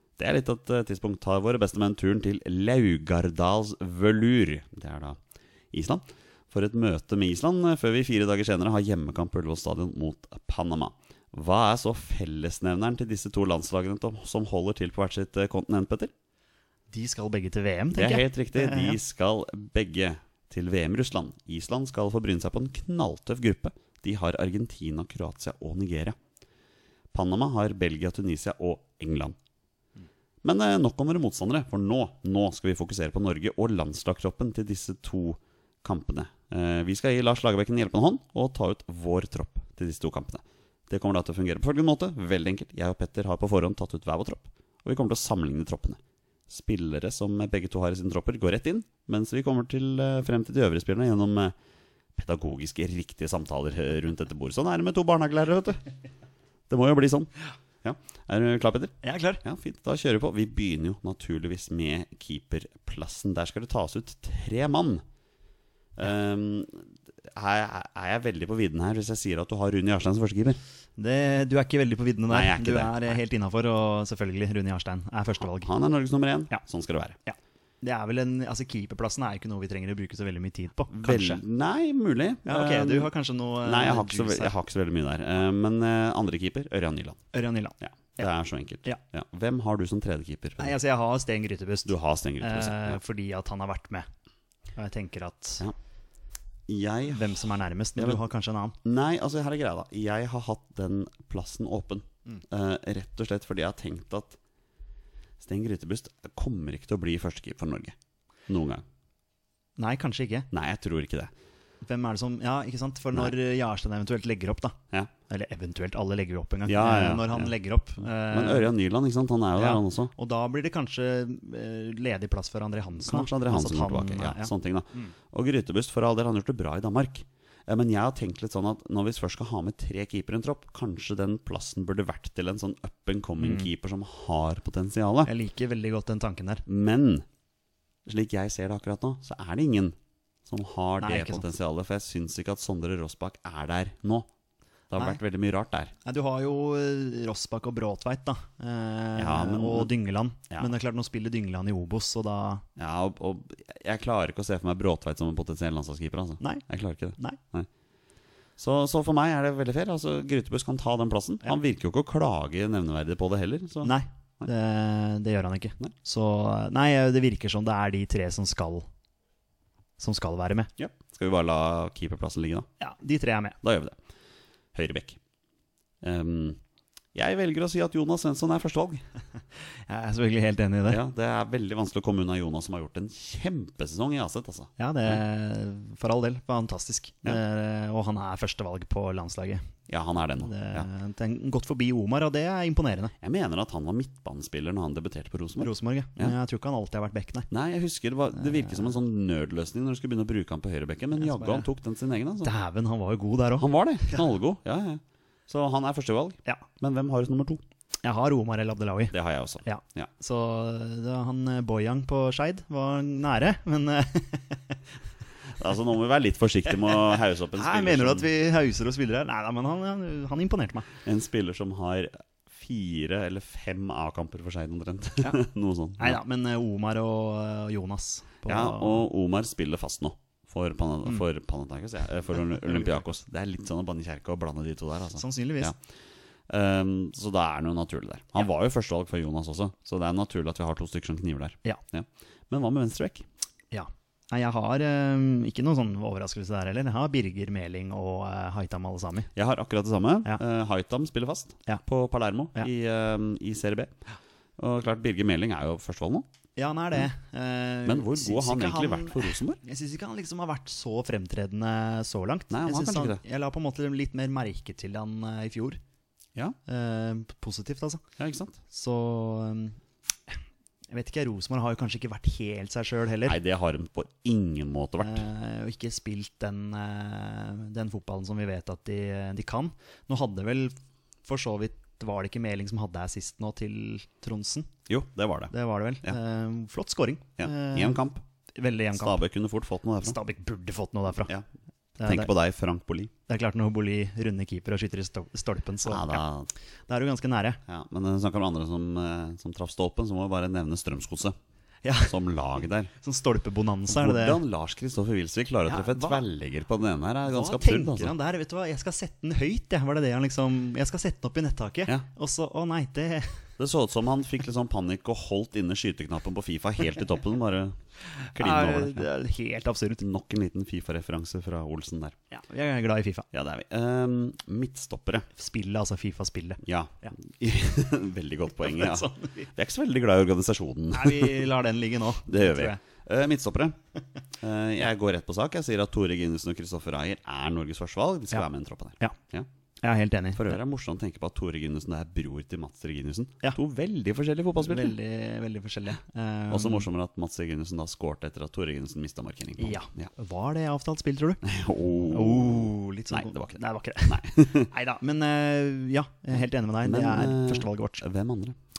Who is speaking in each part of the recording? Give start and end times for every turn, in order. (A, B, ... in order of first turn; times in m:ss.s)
0:00.2-0:05.2 A
0:05.7-0:16.1 A
0:16.9-0:19.0 B
0:17.9-0:26.2 A
0:27.1-0:29.4 A
0:30.4-0:51.5 A
0:52.1-0:55.8 A
0:56.7-0:57.3 A
0:57.8-1:05.0 A
0:59.0-0:59.4 B
1:06.0-1:10.6 A
1:11.0-1:15.7 B
1:12.3-1:13.1 A
1:15.6-1:17.2 A
1:17.2-1:21.4 B
1:20.9-1:23.1 A
1:22.4-1:24.5 B
1:23.6-1:27.2 A
1:27.3-1:28.3 B
1:27.8-1:30.8 A
1:30.6-1:34.1 B
1:31.8-1:33.0 A
1:34.8-1:35.6 B
1:36.7-1:37.4 A
1:37.1-1:38.8 B
1:38.8-1:44.4 A
1:45.4-1:48.0 A
1:48.5-1:48.8 A
1:49.8-1:50.5 B
1:50.5-1:51.3 A
1:51.8-1:54.8 B
1:55.3-1:58.7 B
1:56.6-1:57.5 A
1:58.3-2:00.1 A
1:59.6-2:05.1 B
2:03.0-2:15.3 A
2:13.4-2:13.7 B
2:15.2-2:16.6 B
2:16.6-2:17.2 A
2:18.0-2:24.3 A
2:21.0-2:21.4 B
2:24.9-2:25.9 A
2:26.0-2:32.6 B
2:29.2-2:29.9 A
2:32.8-2:37.7 A
2:38.6-2:44.5 A
2:43.8-2:48.9 B
2:50.0-2:50.7 B
2:50.8-2:52.7 A
2:52.8-2:53.6 B
2:53.6-2:54.0 A
2:54.7-2:55.2 A
2:56.0-2:56.6 A
2:57.1-2:59.0 A
2:59.9-3:01.0 B
3:00.9-3:05.2 A
3:04.8-3:09.7 B
3:09.9-3:10.9 A
3:10.4-3:13.1 B
3:13.2-3:16.3 A
3:15.6-3:17.5 B
3:17.5-3:22.5 A
3:21.2-3:21.7 B
3:22.4-3:24.2 B
3:23.6-3:27.6 A
3:28.0-3:34.8 B
3:29.1-3:30.1 A
3:35.5-3:38.3 A
3:36.8-3:40.9 B
3:41.0-3:46.2 A
3:46.0-3:49.0 B
3:48.4-3:55.8 A
3:55.2-3:55.7 B
3:56.5-4:03.2 A
4:03.7-4:09.3 B
4:09.3-4:13.9 A
4:14.6-4:16.3 A
4:16.6-4:25.8 B
4:17.8-4:19.6 A
4:22.5-4:23.2 A
4:26.6-4:28.0 B
4:28.2-4:28.6 A
4:28.7-4:29.8 B
4:30.9-4:33.4 B
4:33.2-4:35.2 A
4:35.0-4:44.7 B
4:44.9-4:45.5 A
4:45.5-4:48.0 B
4:47.4-4:48.2 A
4:48.6-4:49.2 B
4:48.9-4:50.2 A
4:50.0-4:51.3 B
4:52.0-4:52.3 B
4:52.0-4:53.1 A
4:53.3-4:56.2 B
4:55.8-4:56.5 A
4:56.9-4:57.6 B
4:57.6-5:01.4 A
5:01.8-5:02.2 B
5:02.0-5:02.9 A
5:03.0-5:04.4 B
5:03.9-5:08.1 A
5:05.7-5:06.2 B
5:07.2-5:13.4 B
5:13.6-5:17.8 A
5:18.2-5:20.0 B
5:18.3-5:19.1 A
5:20.0-5:22.1 A
5:22.3-5:23.3 B
5:23.3-5:25.3 A
5:25.3-5:27.1 B
5:26.6-5:31.5 A
5:28.6-5:29.5 B
5:30.9-5:32.8 B
5:32.2-5:33.8 A
5:34.4-5:39.5 A
5:39.8-5:40.6 B
5:40.3-5:44.9 A
5:44.6-5:46.9 B
5:46.5-5:50.1 A
5:49.6-5:51.4 B
5:51.4-5:54.7 A
5:52.1-5:58.0 B
5:56.8-5:58.6 A